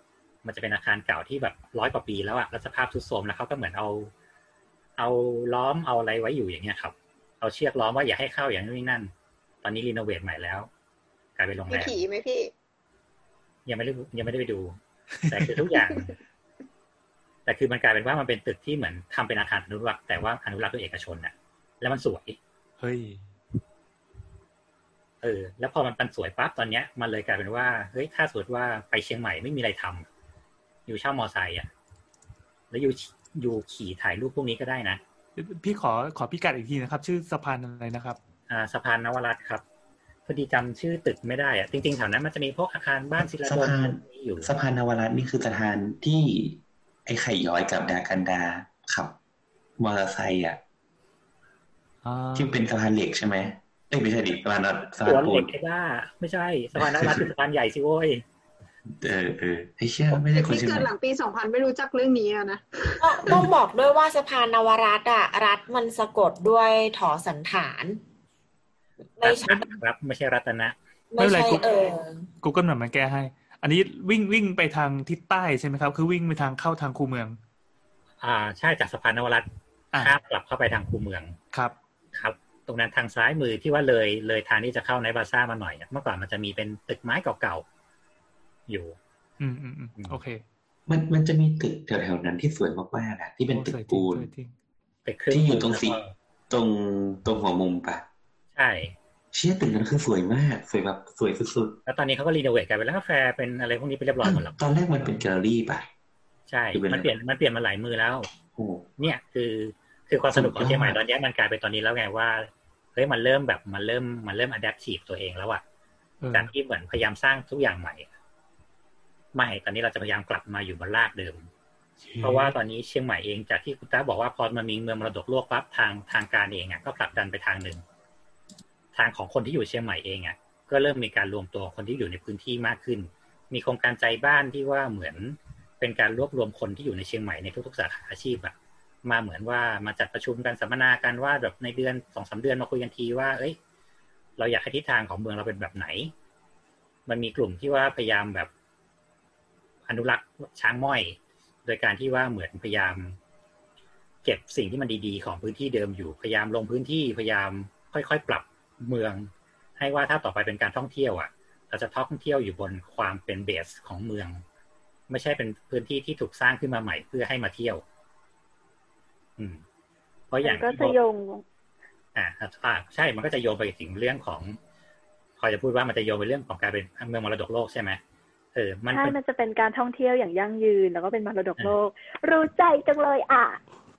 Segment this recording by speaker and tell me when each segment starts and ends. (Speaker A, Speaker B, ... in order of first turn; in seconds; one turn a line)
Speaker A: 0.4-4.1
Speaker A: 5.0-9.1
Speaker A: 9.6-10.7
Speaker A: 11.4-12.0
Speaker B: 11.7-12.5
Speaker A: 13.7-16.1
Speaker A: 17.4-22.4
Speaker C: 22.8-23.2
Speaker A: 25.2-30.1
Speaker A: 30.9-31.7
Speaker A: 32.7-35.0
Speaker C: 35.4-38.2
Speaker A: 38.5-39.6
Speaker A: 40.3-44.5
Speaker D: 43.4-49.1
Speaker D: 49.8-50.6
Speaker C: 52.0-52.6
Speaker D: 52.3-55.5
Speaker A: 55.0-58.2
Speaker D: 56.8-57.2
Speaker D: 58.9-60.9
Speaker B: 60.2-63.1
Speaker E: 63.0-68.0
Speaker E: 69.2-69.7
Speaker A: 69.2-70.8
Speaker E: 71.1-72.2
Speaker C: 71.2-71.6
Speaker C: 72.4-77.4
Speaker A: 78.2-81.3
Speaker A: 82.1-87.6
Speaker A: 88.7-88.9
Speaker C: 89.4-90.4
Speaker D: 90.9-94.3
Speaker C: 93.5-94.5
Speaker A: 95.0-96.1
Speaker D: 95.3-96.0
Speaker D: 96.5-98.0
Speaker A: 98.5-98.9
Speaker D: 99.3-101.8
Speaker A: 101.8-104.6
Speaker D: 104.2-105.9
Speaker A: 106.5-108.3
Speaker D: 106.7-107.1
Speaker D: 108.5-108.8
Speaker A: 109.0-115.6
Speaker D: 110.3-111.0
Speaker C: 116.2-116.5
Speaker A: 116.3-118.1
Speaker A: 119.3-121.5
Speaker C: 122.0-122.5
Speaker A: 122.2-127.8
Speaker A: 128.9-138.5
Speaker A: 139.0-143.6
Speaker A: 144.4-146.1
Speaker A: 147.1-148.5
Speaker A: 149.9-153.2
Speaker A: 154.2-164.4
Speaker A: 165.1-167.8
Speaker A: 170.3-171.0
Speaker F: 170.4-171.4
Speaker A: 172.1-174.6
Speaker A: 175.4-178.0
Speaker A: 178.5-179.1
Speaker F: 178.9-183.6